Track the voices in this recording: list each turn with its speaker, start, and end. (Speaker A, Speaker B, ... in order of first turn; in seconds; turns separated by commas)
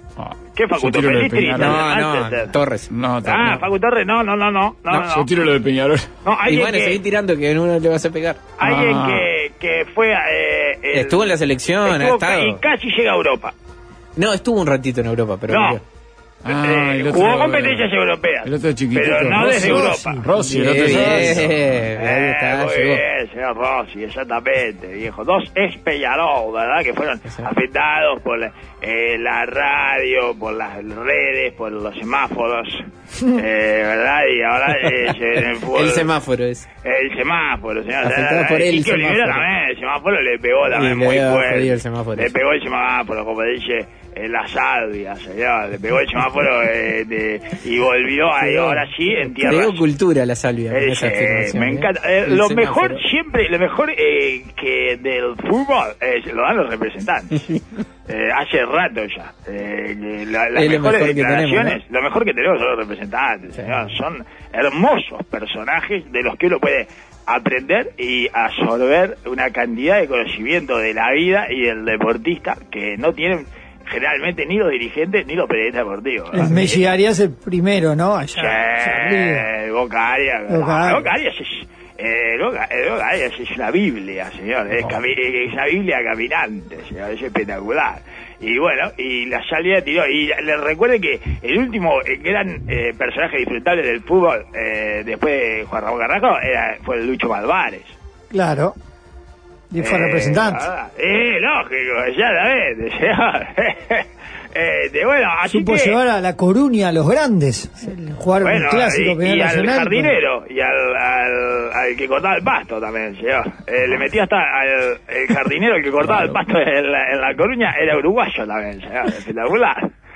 Speaker A: 0.2-1.9, Speaker B: 0.5-2.6, Speaker C: 1.6-3.5, Speaker A: 2.9-3.6, Speaker B: 3.2-5.3, Speaker A: 4.9-6.1, Speaker B: 6.2-7.0, Speaker C: 6.5-8.4, Speaker B: 8.6-13.5, Speaker A: 8.6-9.3, Speaker C: 10.9-12.6, Speaker C: 14.2-15.8, Speaker B: 15.5-15.8, Speaker A: 16.4-17.9, Speaker B: 16.5-20.2, Speaker A: 18.4-21.9, Speaker D: 19.4-21.4, Speaker C: 20.5-23.0, Speaker B: 21.9-36.1, Speaker C: 35.6-36.7, Speaker B: 36.8-49.8, Speaker C: 38.0-39.5, Speaker C: 40.7-42.3, Speaker C: 48.4-48.9, Speaker C: 49.4-53.0, Speaker B: 50.7-76.8, Speaker C: 60.5-61.8, Speaker D: 76.3-79.5, Speaker B: 78.3-97.9, Speaker D: 80.5-81.1, Speaker D: 98.3-98.7, Speaker D: 99.7-100.7, Speaker B: 99.8-106.0, Speaker D: 105.5-110.1, Speaker B: 108.4-119.9